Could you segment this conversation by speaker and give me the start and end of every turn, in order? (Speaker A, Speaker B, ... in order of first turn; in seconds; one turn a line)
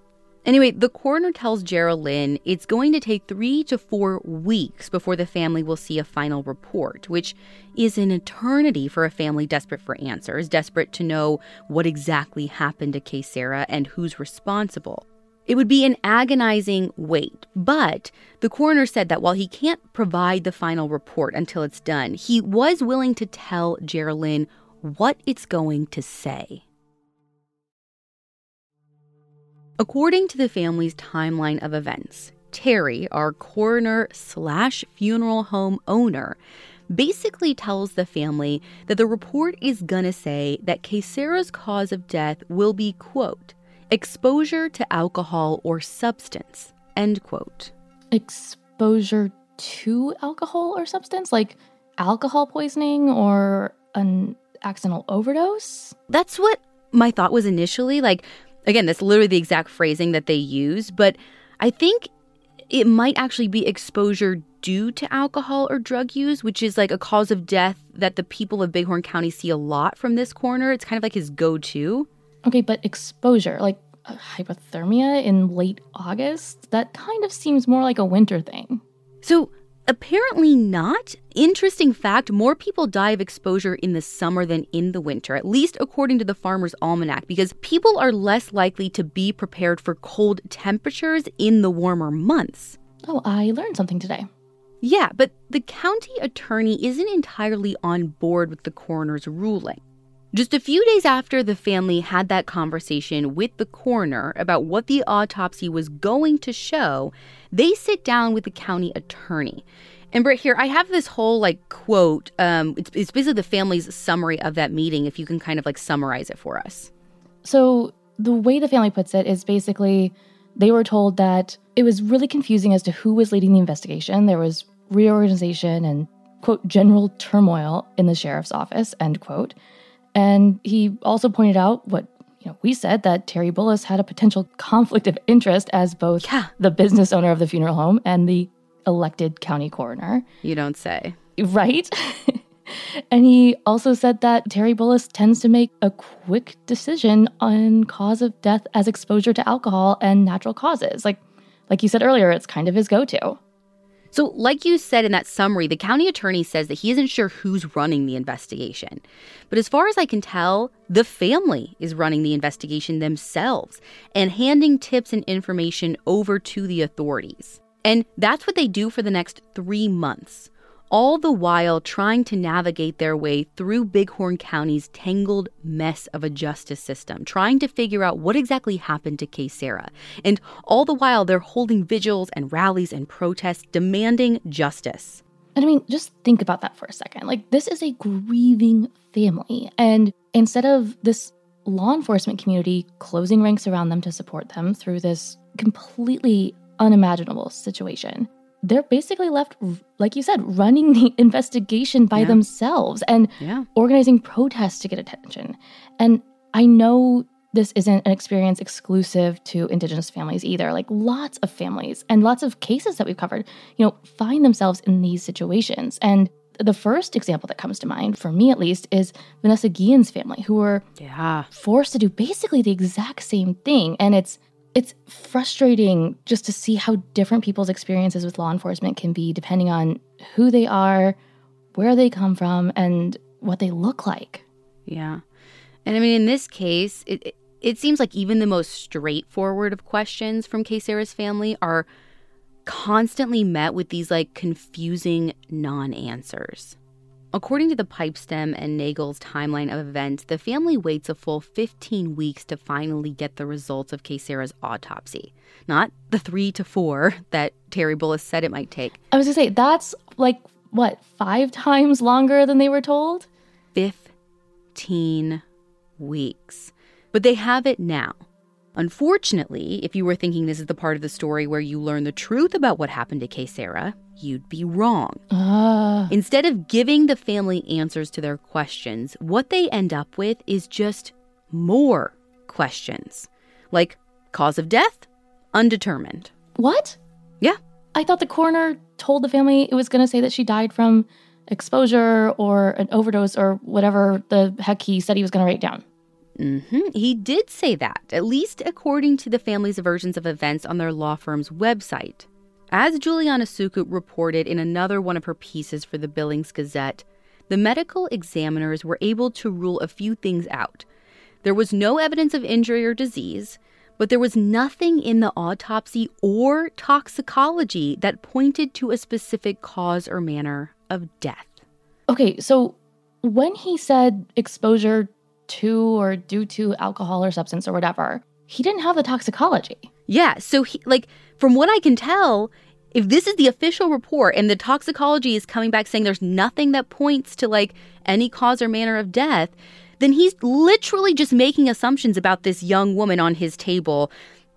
Speaker A: 0.5-26.6
Speaker A: 29.8-36.4
Speaker A: 36.9-47.7
Speaker B: 48.1-56.0
Speaker A: 56.1-62.1
Speaker A: 62.7-72.1
Speaker B: 72.5-78.8
Speaker A: 79.2-92.8
Speaker B: 93.0-94.3
Speaker A: 94.8-99.8
Speaker A: 100.3-116.9
Speaker B: 117.4-129.6
Speaker B: 130.1-140.2
Speaker A: 136.2-136.5
Speaker A: 140.4-141.2
Speaker B: 141.4-153.4
Speaker A: 154.1-185.2
Speaker B: 185.6-220.8
Speaker A: 202.2-202.4
Speaker A: 203.4-203.7
Speaker A: 221.0-221.5
Speaker B: 221.5-231.2
Speaker B: 231.7-234.4
Speaker A: 234.9-235.2
Speaker A: 235.9-241.9
Speaker A: 242.7-246.8
Speaker A: 247.3-259.0
Speaker B: 259.1-263.3
Speaker A: 263.7-264.1
Speaker A: 264.7-265.4
Speaker A: 266.0-268.2
Speaker A: 268.8-275.2
Speaker B: 275.3-276.1
Speaker A: 276.1-286.3
Speaker B: 286.6-287.0
Speaker B: 287.9-295.8
Speaker A: 296.4-310.9
Speaker A: 311.4-321.6
Speaker B: 322.1-329.9
Speaker A: 330.1-344.1